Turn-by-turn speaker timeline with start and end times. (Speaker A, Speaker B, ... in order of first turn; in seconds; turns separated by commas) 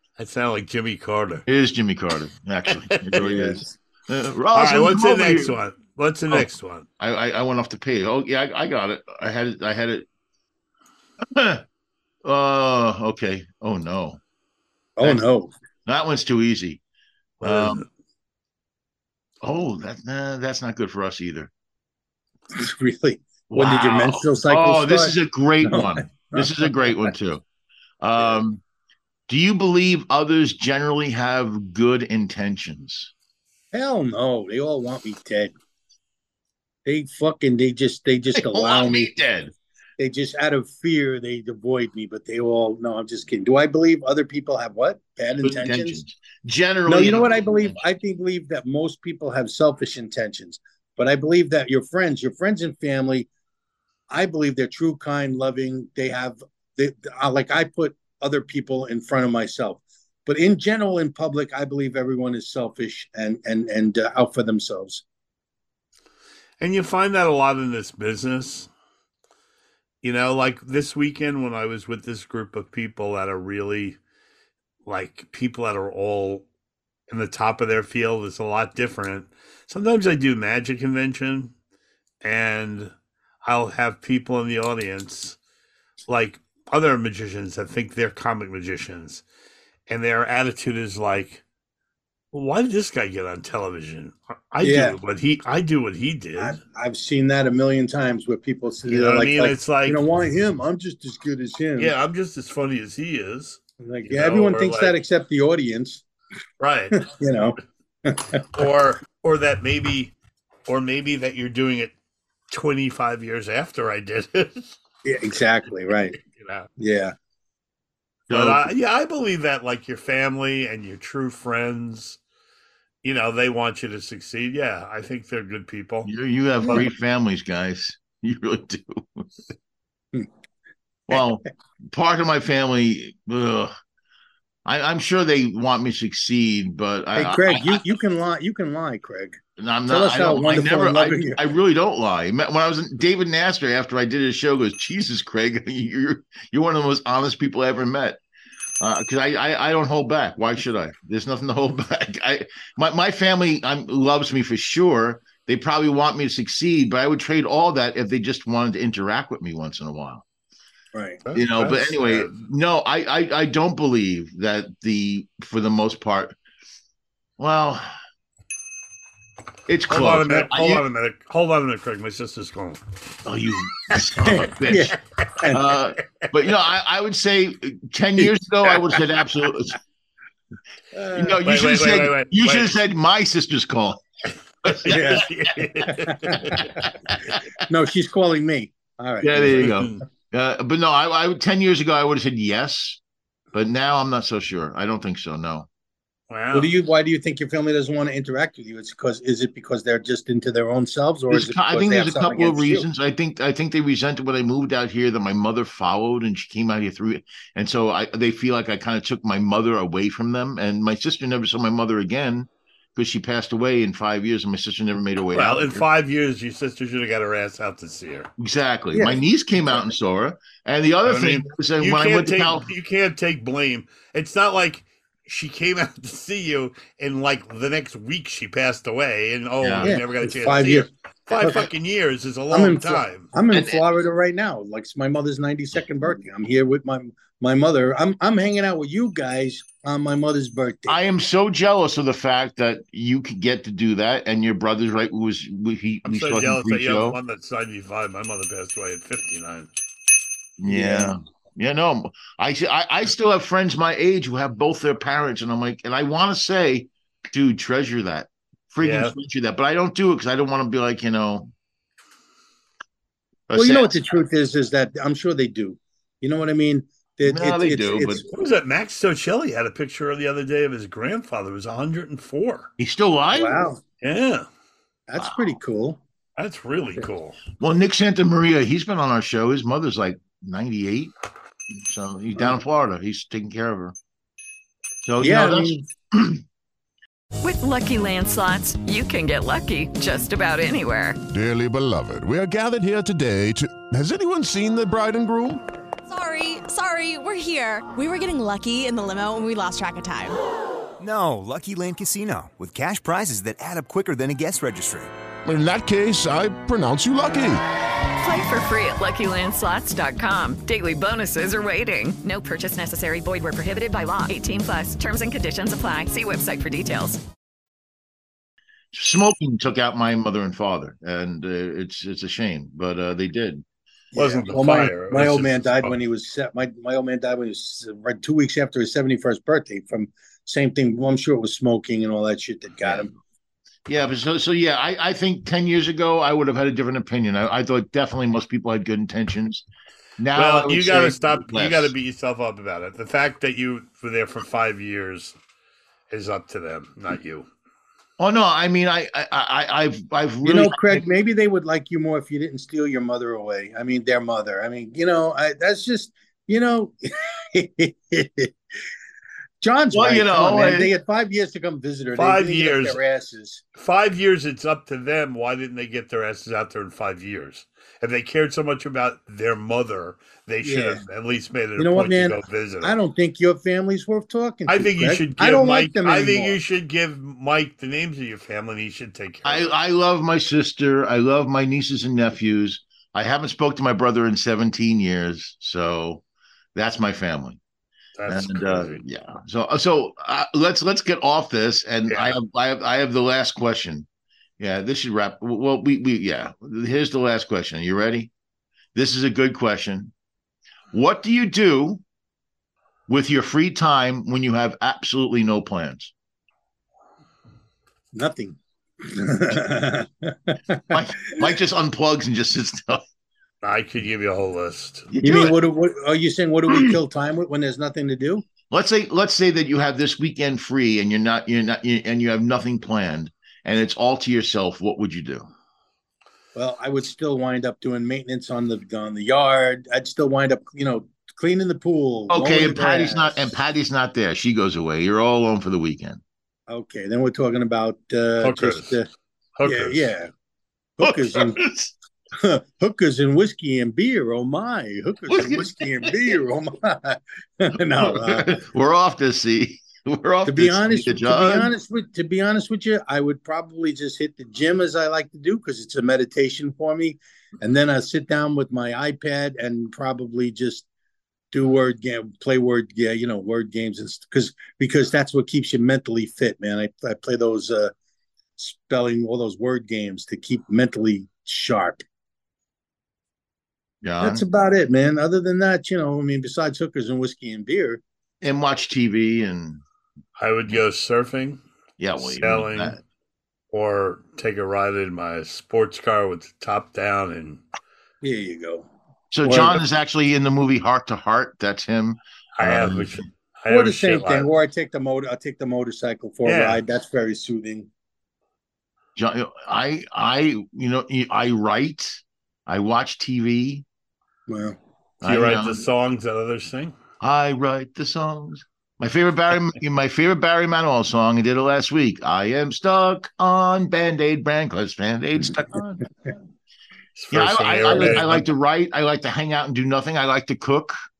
Speaker A: 0.2-1.4, Speaker B: 1.5-5.6, Speaker A: 2.9-3.3, Speaker C: 3.2-3.6, Speaker A: 4.5-6.9, Speaker B: 7.0-10.1, Speaker B: 11.2-11.6, Speaker B: 12.2-14.2, Speaker C: 15.0-15.5, Speaker B: 15.9-16.8, Speaker A: 17.4-17.9, Speaker B: 17.4-17.8, Speaker B: 19.4-21.5, Speaker C: 22.6-27.1, Speaker B: 23.5-27.4, Speaker B: 28.0-28.6, Speaker B: 29.3-33.1, Speaker C: 33.7-35.5, Speaker C: 36.9-39.1, Speaker B: 38.4-39.5, Speaker C: 40.0-46.0, Speaker B: 45.4-47.8, Speaker C: 46.9-53.3, Speaker C: 54.1-65.0, Speaker A: 66.6-68.7, Speaker A: 70.0-74.0, Speaker A: 74.9-76.5, Speaker A: 77.1-81.5, Speaker A: 82.2-82.9, Speaker A: 83.4-85.4, Speaker A: 86.1-89.2, Speaker A: 89.9-91.4, Speaker A: 92.3-96.6, Speaker C: 94.6-95.0, Speaker C: 96.4-101.9, Speaker A: 98.9-100.0, Speaker A: 101.8-105.0, Speaker C: 103.8-106.0, Speaker A: 106.6-107.1, Speaker C: 107.0-108.5, Speaker A: 108.5-110.1, Speaker A: 110.7-111.9, Speaker A: 112.5-114.6, Speaker C: 115.0-116.2, Speaker A: 116.2-116.7, Speaker C: 116.8-117.1, Speaker B: 118.3-118.7, Speaker A: 118.3-122.2, Speaker A: 123.0-126.1, Speaker B: 126.0-129.3, Speaker B: 131.1-133.7, Speaker B: 134.7-137.8, Speaker C: 137.2-141.4, Speaker B: 139.6-148.2, Speaker B: 148.8-160.2, Speaker C: 160.9-161.2, Speaker A: 161.2-162.3, Speaker B: 161.3-166.3, Speaker B: 167.4-167.9, Speaker B: 169.7-170.8, Speaker A: 169.9-172.8, Speaker B: 173.2-175.0, Speaker C: 174.2-175.6, Speaker B: 175.5-179.8, Speaker C: 180.9-181.3, Speaker B: 181.1-184.0, Speaker A: 181.4-182.7, Speaker B: 184.6-185.3, Speaker C: 184.8-185.3, Speaker A: 184.8-186.7, Speaker C: 185.9-186.7, Speaker C: 187.7-189.8, Speaker B: 189.2-193.0, Speaker A: 189.6-190.0, Speaker B: 193.5-195.7, Speaker A: 196.3-196.7, Speaker C: 196.5-202.9, Speaker B: 201.3-215.8, Speaker A: 215.3-218.3, Speaker B: 218.4-222.7, Speaker C: 218.9-219.2, Speaker A: 221.1-233.3, Speaker B: 229.6-230.0, Speaker C: 229.8-231.7, Speaker C: 232.5-241.0, Speaker B: 233.5-233.8, Speaker B: 240.9-247.2, Speaker A: 246.1-249.7, Speaker B: 250.6-261.5, Speaker C: 250.7-251.2, Speaker A: 258.8-259.1, Speaker B: 263.5-264.0, Speaker C: 263.6-268.2, Speaker B: 267.2-268.2, Speaker A: 268.3-272.7, Speaker B: 272.8-273.6, Speaker C: 273.3-273.8, Speaker A: 274.0-274.5, Speaker C: 275.1-276.0, Speaker B: 275.2-275.4, Speaker A: 276.4-277.4, Speaker B: 277.6-281.1, Speaker B: 281.8-283.9, Speaker B: 285.0-286.4, Speaker C: 285.2-285.9, Speaker D: 287.4-291.2, Speaker E: 291.3-295.6, Speaker F: 296.1-300.4, Speaker G: 301.0-305.1, Speaker E: 305.4-307.6, Speaker D: 308.2-317.2, Speaker B: 318.9-323.6, Speaker C: 324.1-333.1, Speaker A: 324.2-325.9, Speaker B: 332.8-333.1, Speaker B: 333.9-339.7, Speaker B: 340.2-341.9, Speaker A: 340.4-345.4, Speaker A: 346.1-347.5, Speaker B: 348.2-351.1, Speaker C: 350.4-358.5, Speaker C: 359.6-363.6, Speaker B: 359.9-360.9, Speaker A: 362.2-363.0, Speaker A: 363.8-373.0, Speaker C: 370.6-371.0, Speaker C: 371.8-376.6, Speaker A: 374.7-379.7, Speaker B: 379.4-386.2, Speaker B: 386.8-387.6, Speaker A: 388.2-389.0, Speaker B: 388.3-394.1, Speaker A: 392.1-392.4, Speaker B: 394.6-398.3, Speaker B: 398.9-400.1, Speaker B: 400.9-402.0, Speaker B: 403.1-406.1, Speaker C: 408.1-411.0, Speaker B: 410.9-413.0, Speaker A: 413.6-415.1, Speaker B: 415.1-415.6, Speaker C: 415.2-418.4, Speaker B: 416.7-417.0, Speaker B: 418.7-425.5, Speaker C: 426.6-433.5, Speaker B: 432.3-436.2, Speaker C: 436.7-439.1, Speaker A: 438.4-439.0, Speaker A: 439.6-440.1, Speaker C: 439.6-440.3, Speaker C: 441.0-441.6, Speaker B: 441.0-441.9, Speaker C: 442.3-448.6, Speaker B: 445.3-446.1, Speaker B: 448.0-451.7, Speaker C: 450.4-460.9, Speaker C: 461.5-467.9, Speaker C: 468.6-472.0, Speaker B: 474.0-474.4, Speaker C: 474.2-478.0, Speaker B: 478.4-479.8, Speaker A: 480.4-481.6, Speaker B: 482.0-483.0, Speaker A: 482.2-483.0, Speaker A: 483.7-487.6, Speaker C: 488.2-488.9, Speaker B: 489.3-493.3, Speaker C: 489.4-489.8, Speaker A: 492.6-494.5, Speaker C: 493.7-497.9, Speaker A: 496.4-496.8, Speaker B: 499.2-503.9, Speaker C: 504.5-504.8, Speaker B: 505.2-505.9, Speaker A: 505.2-507.0, Speaker B: 507.2-516.0, Speaker A: 517.2-518.4, Speaker B: 517.3-521.0